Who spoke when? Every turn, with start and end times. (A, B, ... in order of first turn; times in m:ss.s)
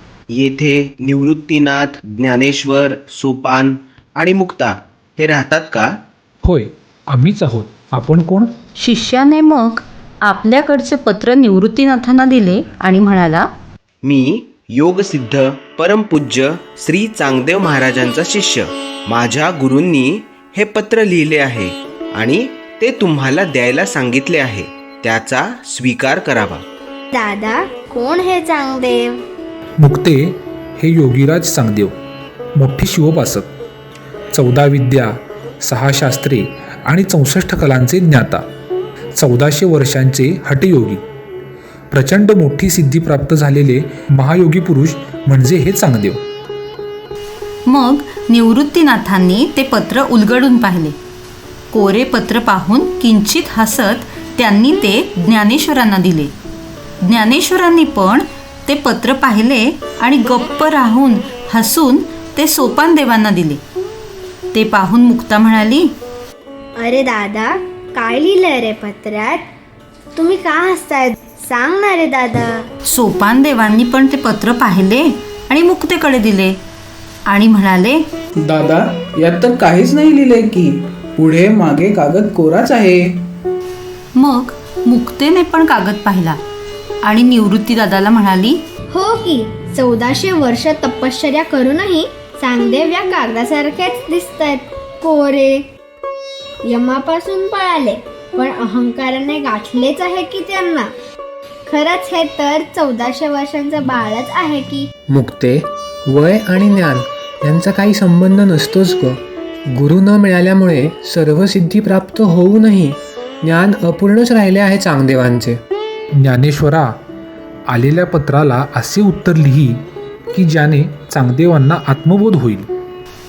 0:00.3-0:05.9 A
0:06.4-0:08.5 B
0:08.8-0:13.5 C
0:14.0-0:26.6 A
0:27.1-0:29.2 D
0:29.8-0:31.9 B
0:32.6-0:33.5 B
0:34.3-0:38.4 B
0:39.2-0:41.0 B
0:41.9-0:46.2 B
0:47.7-0:50.9 C
0:51.7-0:56.3 C
0:57.0-1:03.6 C
1:04.5-1:05.9 C
1:06.8-1:09.4 D
1:10.2-1:12.7 D
1:12.9-1:16.6 C
1:17.3-1:18.0 C
1:18.4-1:23.2 E
1:24.1-1:26.4 C
1:27.0-1:28.6 C
1:28.9-1:35.6 D
1:36.6-1:40.9 D
1:41.7-1:44.9 D
1:45.1-1:49.2 F
1:49.7-1:55.5 F
1:56.2-1:56.9 B
1:57.7-1:59.8 B
2:00.3-2:02.7 B